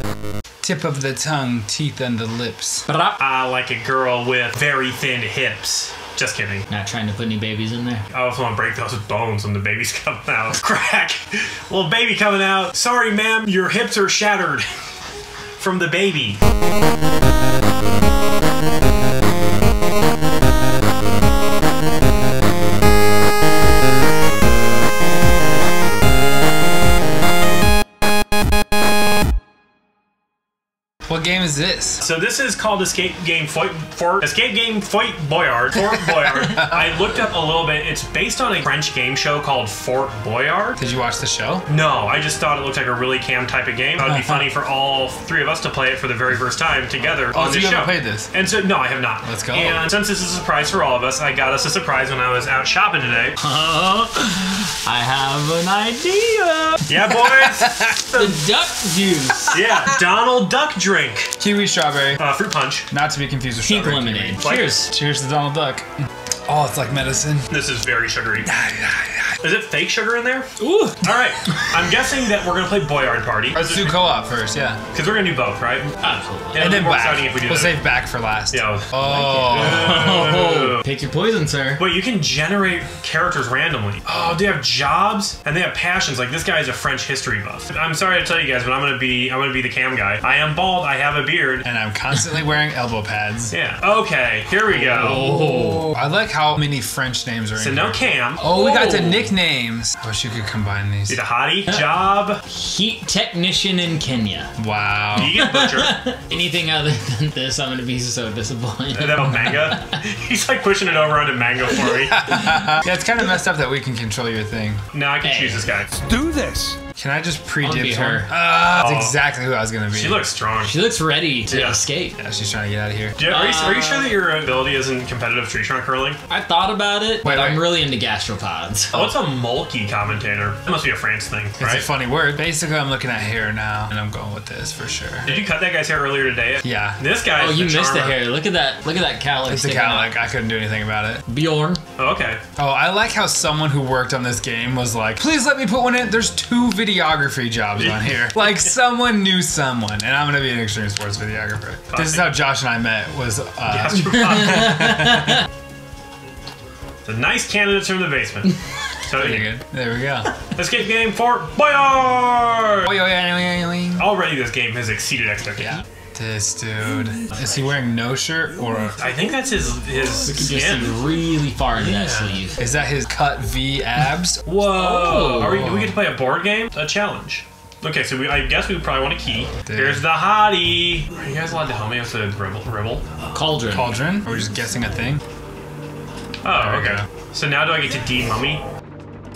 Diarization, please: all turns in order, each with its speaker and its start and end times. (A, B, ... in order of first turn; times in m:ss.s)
0:00.6-0:02.9 A
0:02.9-0:03.2 B
0:03.2-0:06.7 C
0:06.7-0:08.0 B
0:08.1-0:14.7 C
0:15.6-0:16.4 C
0:31.1-0:32.0 A
0:32.0-0:40.8 C
0:36.3-0:36.9 A
0:40.8-0:41.7 A
0:41.7-0:53.4 C
0:44.1-0:44.4 A
0:47.3-0:48.3 A
0:49.2-0:49.9 A
0:53.4-0:56.9 B
0:56.9-0:58.4 C
0:57.2-0:58.0 A
0:58.1-0:59.6 B
0:59.5-1:01.3 C
1:01.4-1:02.2 A
1:02.2-1:02.9 C
1:02.9-1:05.9 A
1:03.6-1:04.9 B
1:04.4-1:04.7 C
1:06.5-1:07.6 A
1:07.5-1:08.5 C
1:08.4-1:09.4 A
1:09.4-1:10.5 C
1:10.6-1:11.2 B
1:11.0-1:14.1 C
1:13.5-1:14.8 A
1:14.9-1:15.9 C
1:16.0-1:16.7 B
1:16.5-1:17.9 C
1:16.6-1:20.1 A
1:18.5-1:20.8 C
1:19.0-1:21.8 B
1:21.8-1:31.7 C
1:31.6-1:33.5 A
1:33.5-1:35.3 C
1:34.9-1:35.9 B
1:35.0-1:41.2 A
1:37.6-1:38.5 C
1:38.4-1:39.3 B
1:41.1-1:42.4 C
1:42.5-1:44.5 B
1:44.6-1:45.4 A
1:45.2-1:46.0 C
1:45.3-1:49.8 B
1:48.9-1:52.3 C
1:52.1-1:54.8 A
1:54.9-1:55.9 C
1:55.2-1:55.7 B
1:56.0-2:00.3 A
1:57.6-1:58.3 B
1:58.7-1:59.2 C
1:59.9-2:00.8 C
2:00.6-2:02.2 B
2:01.5-2:01.8 C
2:02.2-2:03.2 A
2:03.2-2:06.2 C
2:03.3-2:04.2 B
2:06.3-2:08.9 B
2:07.2-2:07.7 A
2:08.9-2:11.9 C
2:11.6-2:15.5 A
2:15.2-2:18.2 C
2:16.6-2:17.0 A
2:17.4-2:20.2 B
2:19.5-2:21.2 A
2:21.3-2:21.8 B
2:22.0-2:22.4 C
2:22.6-2:35.4 A
2:27.8-2:28.7 C
2:31.9-2:32.4 C
2:33.7-2:34.9 C
2:34.8-2:35.3 B
2:37.0-2:38.5 C
2:39.0-2:39.5 C
2:39.2-2:40.3 A
2:40.6-2:42.9 C
2:42.8-2:44.1 A
2:44.0-2:45.8 C
2:45.6-2:49.0 A
2:47.3-2:47.7 B
2:49.0-2:51.0 C
2:50.3-2:52.6 B
2:51.8-2:52.4 C
2:52.6-2:54.4 A
2:54.5-3:03.1 C
2:54.7-2:55.7 B
2:55.5-2:56.0 A
2:59.6-3:00.0 A
3:03.3-3:04.0 B
3:03.7-3:05.2 A
3:06.4-3:08.6 C
3:06.6-3:07.0 A